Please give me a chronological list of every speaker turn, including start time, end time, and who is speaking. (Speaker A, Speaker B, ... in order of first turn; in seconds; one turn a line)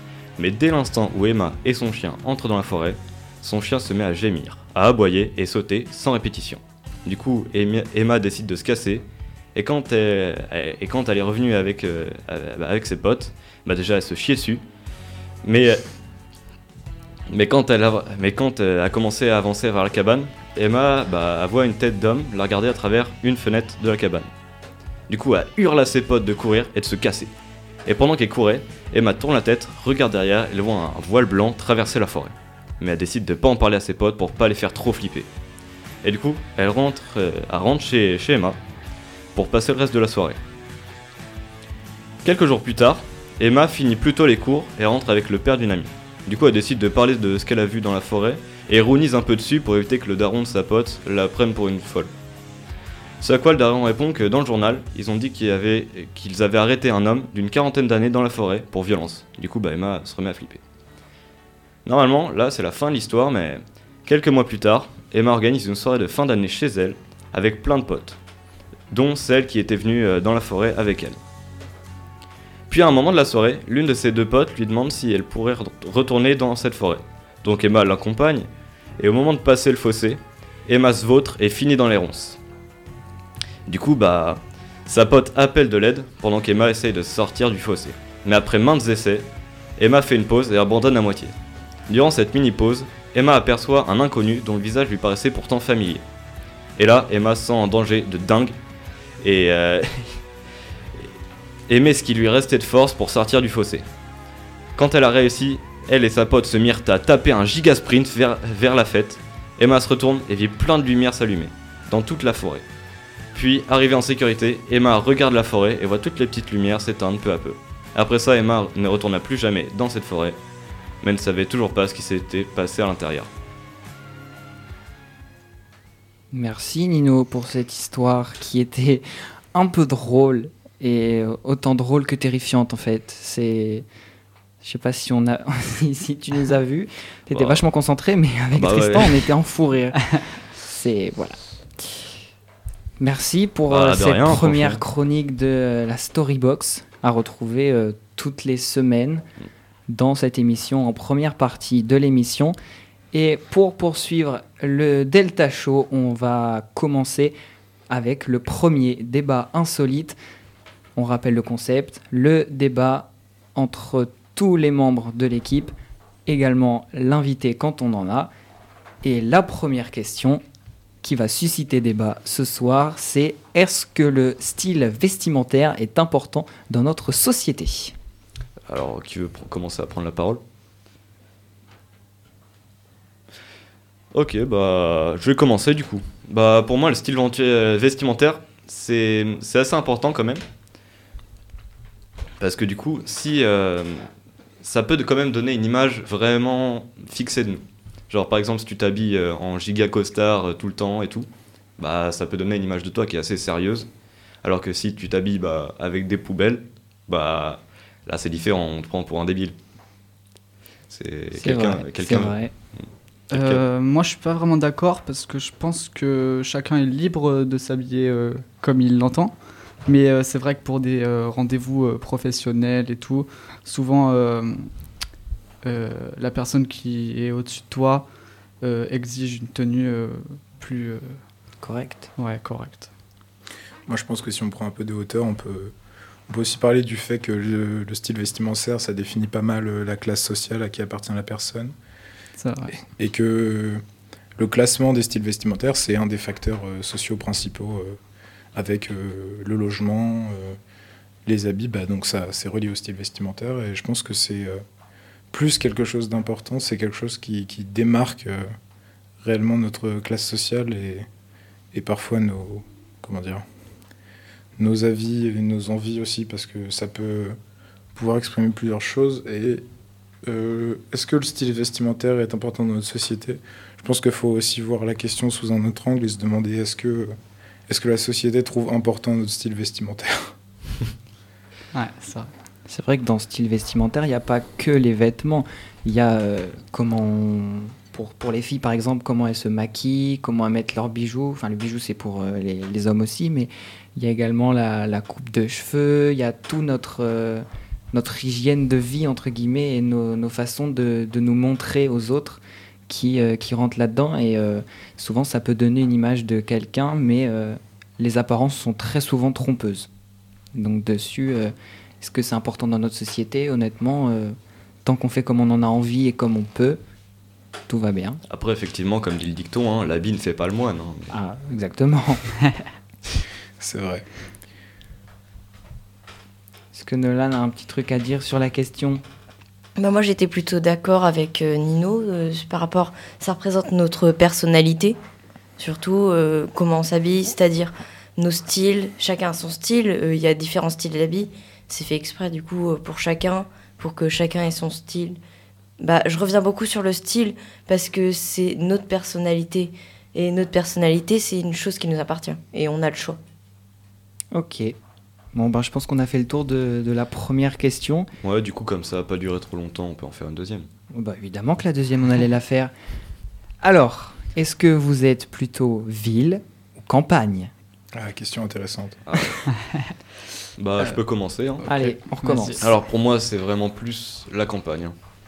Speaker A: 0.4-14.6
Speaker A: 15.4-15.8
Speaker A: 17.3-24.3
Speaker A: 25.1-27.3
Speaker A: 27.9-35.3
Speaker A: 36.0-38.6
Speaker A: 39.3-40.4
Speaker A: 42.2-52.1
Speaker A: 53.2-60.6
Speaker A: 61.8-68.2
Speaker A: 68.9-71.2
Speaker A: 72.7-78.5
Speaker A: 79.0-82.4
Speaker A: 83.7-91.3
Speaker A: 91.9-96.0
Speaker A: 96.8-98.5
Speaker A: 99.2-100.2
Speaker A: 101.7-103.8
Speaker A: 104.8-112.6
Speaker A: 113.3-120.4
Speaker A: 121.0-123.3
Speaker B: 126.3-133.8
Speaker B: 134.6-140.0
Speaker A: 137.3-137.6
Speaker A: 138.5-139.3
Speaker B: 140.6-142.0
Speaker B: 143.0-149.2
Speaker A: 143.7-144.8
Speaker B: 149.9-152.6
Speaker B: 153.1-157.3
Speaker B: 157.9-160.2
Speaker B: 160.9-165.7
Speaker B: 166.3-168.3
Speaker B: 169.0-170.4
Speaker B: 171.0-177.9
Speaker A: 178.7-180.4
Speaker A: 184.1-190.4
Speaker A: 192.4-194.1
Speaker A: 194.6-203.9
Speaker A: 204.4-209.5
Speaker A: 210.9-213.6
Speaker B: 211.3-212.5
Speaker C: 213.3-224.7
Speaker C: 225.6-228.1
Speaker C: 228.6-231.2
Speaker B: 231.6-232.1
Speaker C: 232.2-232.9
Speaker D: 233.9-235.7
Speaker D: 236.3-241.7
Speaker C: 242.4-242.8
Speaker D: 242.8-243.8
Speaker D: 244.4-248.0
Speaker D: 248.5-250.6
Speaker D: 251.2-254.6
Speaker D: 255.3-258.5
Speaker D: 259.2-261.1
Speaker D: 261.7-263.4
Speaker D: 264.6-267.4
Speaker D: 267.9-269.6
Speaker D: 270.2-277.1
Speaker D: 277.7-280.3
Speaker C: 281.7-282.3
Speaker B: 282.7-309.9
Speaker B: 310.5-316.8
Speaker B: 317.7-318.2
Speaker A: 318.3-321.1
Speaker B: 321.1-322.2
Speaker D: 323.6-324.1
Speaker B: 326.7-329.0
Speaker E: 329.8-335.0
Speaker E: 335.6-345.2
Speaker E: 345.8-353.2
Speaker B: 354.3-354.8
Speaker B: 355.3-358.1
Speaker A: 358.2-360.7
Speaker B: 360.9-362.7
Speaker B: 363.6-367.5
Speaker D: 367.9-369.2
Speaker A: 369.1-369.4
Speaker A: 370.6-371.7
Speaker B: 371.6-372.6
Speaker C: 371.6-372.6
Speaker A: 372.6-374.9